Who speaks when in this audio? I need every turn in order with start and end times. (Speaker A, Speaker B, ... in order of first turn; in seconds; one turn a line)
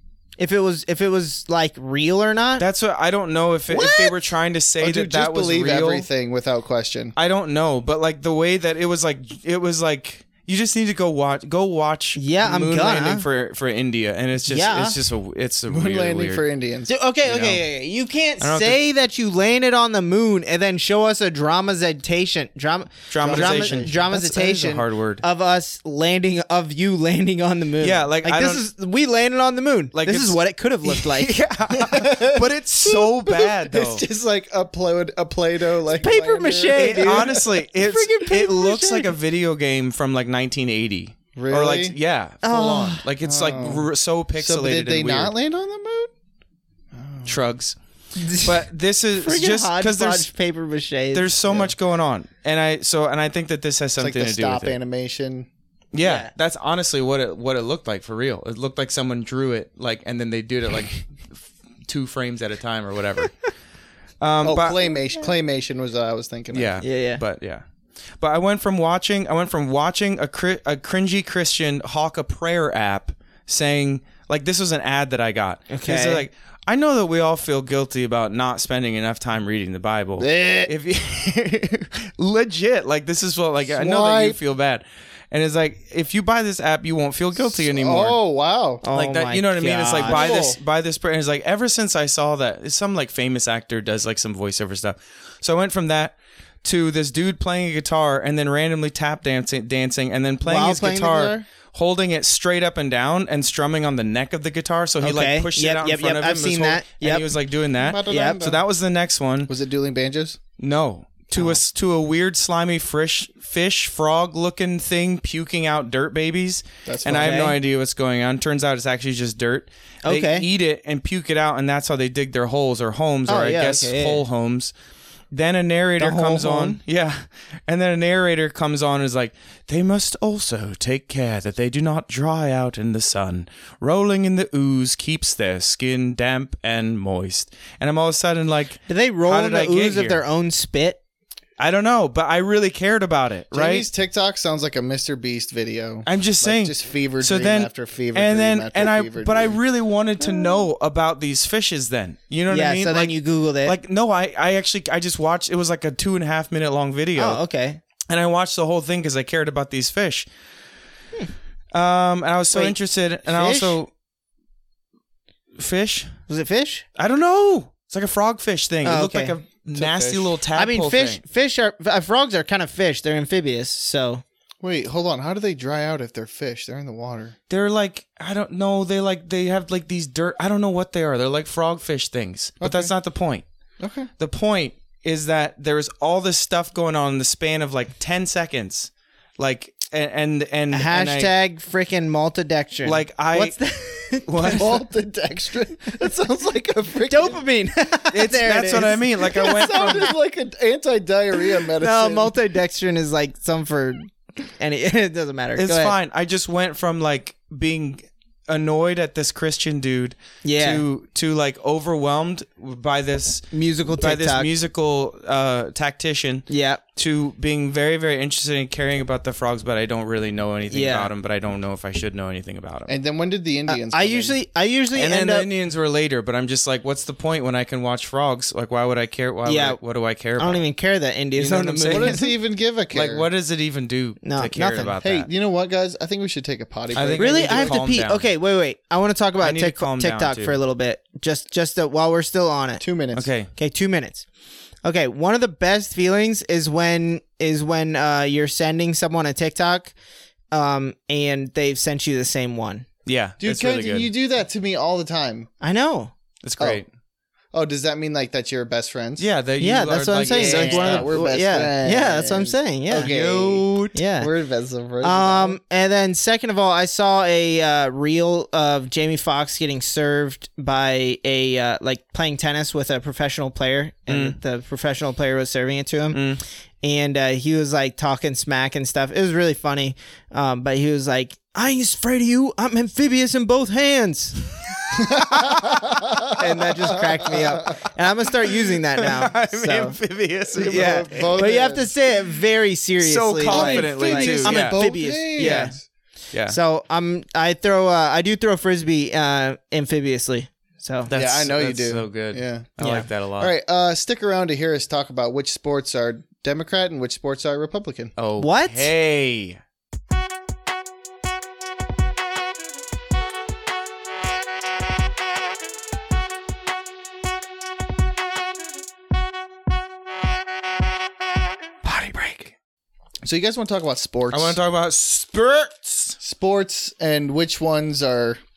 Speaker A: 0.4-2.6
Speaker B: 2.6-6.1
Speaker A: 3.7-4.1
Speaker C: 3.7-4.1
Speaker C: 4.8-7.1
Speaker B: 7.2-16.4
Speaker A: 12.2-13.2
Speaker A: 14.4-15.0
Speaker C: 15.7-16.9
Speaker A: 16.9-31.4
Speaker B: 17.2-17.6
Speaker B: 18.4-18.8
Speaker B: 23.1-25.2
Speaker C: 23.2-24.8
Speaker B: 27.8-28.6
Speaker B: 29.9-34.0
Speaker C: 31.8-37.4
Speaker A: 35.9-39.1
Speaker B: 36.8-45.3
Speaker C: 41.4-42.0
Speaker A: 42.4-43.0
Speaker C: 43.2-46.1
Speaker C: 46.9-47.4
Speaker B: 47.3-47.8
Speaker A: 48.2-51.4
Speaker B: 48.4-50.3
Speaker B: 51.1-54.8
Speaker C: 51.5-51.7
Speaker C: 54.0-55.5
Speaker B: 55.9-63.4
Speaker A: 56.0-56.3
Speaker B: 64.2-64.9
Speaker C: 64.4-66.8
Speaker B: 66.5-67.6
Speaker A: 66.8-67.2
Speaker B: 68.2-88.2
Speaker A: 75.7-76.3
Speaker C: 80.2-80.7
Speaker C: 83.7-84.4
Speaker C: 87.4-88.8
Speaker A: 88.8-90.5
Speaker B: 88.9-109.5
Speaker C: 90.0-90.6
Speaker A: 100.4-101.5
Speaker A: 105.0-107.3
Speaker C: 107.8-108.6
Speaker A: 108.1-108.4
Speaker C: 109.5-110.4
Speaker B: 110.6-124.7
Speaker C: 116.9-117.5
Speaker A: 117.1-117.6
Speaker A: 120.0-120.5
Speaker A: 123.3-124.2
Speaker B: 125.3-140.2
Speaker A: 126.0-126.8
Speaker A: 138.9-141.0
Speaker B: 141.6-143.9
Speaker C: 143.5-149.6
Speaker B: 146.1-157.4
Speaker A: 152.5-153.8
Speaker A: 157.2-157.8
Speaker B: 158.1-160.3
Speaker B: 161.7-163.9
Speaker A: 163.3-163.8
Speaker B: 165.6-166.1
Speaker A: 166.3-166.8
Speaker B: 167.0-171.2
Speaker A: 168.8-169.4
Speaker C: 169.7-170.3
Speaker A: 170.6-174.2
Speaker C: 174.6-177.3
Speaker B: 177.5-183.4
Speaker C: 182.6-182.9
Speaker C: 183.8-184.1
Speaker B: 184.2-191.3
Speaker A: 190.7-194.7
Speaker B: 192.8-193.6
Speaker B: 194.2-194.8
Speaker C: 194.5-197.4
Speaker A: 197.1-200.1
Speaker B: 198.1-200.1
Speaker C: 199.3-202.3
Speaker A: 201.7-205.9
Speaker B: 205.6-222.9
Speaker A: 210.4-210.8
Speaker A: 213.5-214.5
Speaker A: 216.5-216.8
Speaker A: 220.7-221.1
Speaker C: 222.9-224.3
Speaker A: 223.7-225.5
Speaker B: 224.9-230.7
Speaker A: 229.5-229.8
Speaker A: 230.4-232.2
Speaker B: 231.3-232.3
Speaker C: 231.9-233.3
Speaker B: 232.9-235.3
Speaker A: 234.2-235.0
Speaker C: 235.0-237.8
Speaker B: 236.9-238.3
Speaker A: 237.2-242.8
Speaker B: 239.4-240.6
Speaker C: 242.8-243.3
Speaker B: 243.2-243.5
Speaker A: 243.6-244.3
Speaker A: 244.8-249.9
Speaker A: 250.5-252.9
Speaker B: 253.1-254.1
Speaker C: 253.4-255.5
Speaker A: 255.6-256.1
Speaker B: 256.4-256.9
Speaker C: 257.5-259.3
Speaker B: 259.2-261.1
Speaker A: 259.6-263.1
Speaker C: 260.3-263.7
Speaker B: 262.9-264.0
Speaker A: 263.9-264.3
Speaker C: 264.2-265.6
Speaker A: 265.0-276.2
Speaker B: 274.1-274.4
Speaker B: 276.1-276.4
Speaker A: 276.8-284.5
Speaker B: 284.9-286.4
Speaker C: 285.0-286.4
Speaker A: 286.2-290.0
Speaker B: 288.4-291.4
Speaker A: 290.6-295.8
Speaker C: 290.6-291.9
Speaker B: 293.0-295.8
Speaker C: 293.4-295.8
Speaker A: 296.5-301.1
Speaker B: 301.1-303.5
Speaker C: 301.1-302.7
Speaker A: 302.8-303.1
Speaker C: 303.4-308.1
Speaker B: 308.2-309.6
Speaker A: 308.4-308.9
Speaker B: 321.8-322.5
Speaker C: 323.2-324.6
Speaker B: 324.3-326.2
Speaker C: 326.2-328.4